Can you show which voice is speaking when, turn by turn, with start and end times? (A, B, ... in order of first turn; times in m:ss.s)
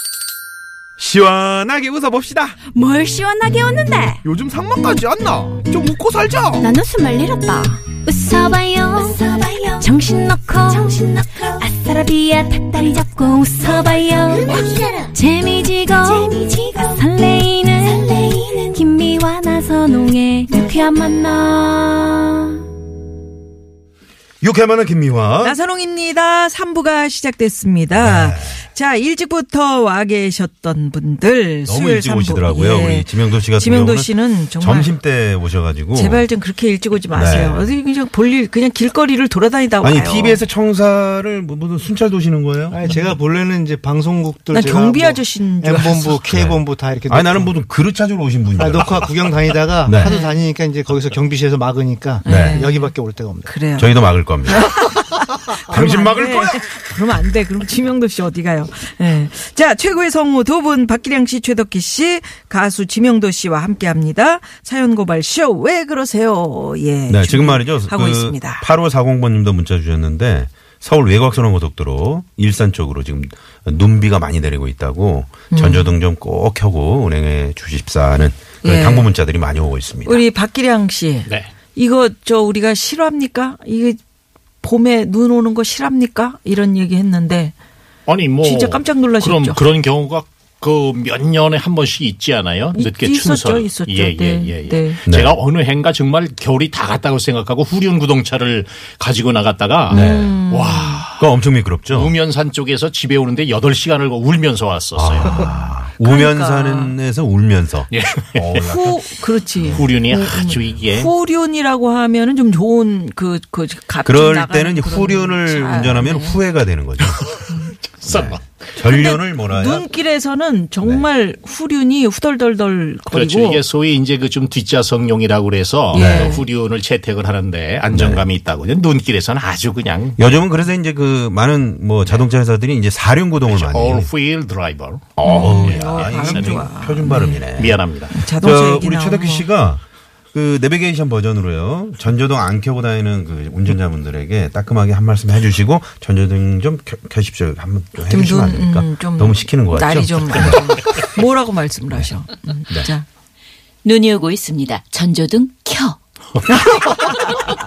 0:01.0-0:02.5 A
0:01.1-0:02.4 B
0:02.6-0:04.2 C
0:04.2-0:06.6 A
0:04.8-0:06.6 B
0:06.5-0:22.6 C
0:24.4-0:25.6 B
0:25.4-0:35.0 D
0:27.9-0:28.6 B
0:31.6-0:36.2 B
0:35.9-0:40.4 D
0:37.1-0:37.7 B
0:39.8-0:42.8 B
0:42.7-0:47.5 E
0:44.5-0:46.2 D
0:46.1-0:50.2 B
0:48.6-0:53.5 E
0:50.0-0:50.4 D
0:52.2-0:52.9 D
0:52.2-0:52.7 B
0:53.4-0:53.9 D
0:53.7-0:54.8 B
0:54.5-1:08.6 D
0:55.6-0:56.8 B
1:07.1-1:20.2 B
1:15.5-1:15.9 D
1:18.6-1:19.1 D
1:20.0-1:24.0 D
1:24.6-1:27.5 D
1:28.1-1:41.3 F
1:28.4-1:29.6 D
1:32.7-1:35.0 D
1:35.1-1:35.4 B
1:39.9-1:40.4 B
1:39.9-1:41.0 D
1:41.2-1:42.1 B
1:41.9-1:45.4 F
1:44.9-1:50.8 B
1:45.3-1:47.0 D
1:47.9-1:48.4 F
1:48.6-1:56.4 D
1:49.7-1:51.1 F
1:54.0-1:57.3 B
1:58.0-1:58.4 F
1:58.1-1:59.9 B
1:58.8-2:03.6 D
2:03.1-2:10.4 F
2:05.9-2:06.4 B
2:05.9-2:06.4 D
2:07.9-2:08.2 B
2:10.2-2:14.1 B
2:12.0-2:12.3 F
2:13.4-2:16.6 F
2:15.2-2:31.0 B
2:15.2-2:17.5 D
2:17.6-2:18.2 F
2:18.1-2:19.5 D
2:28.0-2:33.0 D
2:33.8-2:36.0 G
2:36.5-2:37.4 D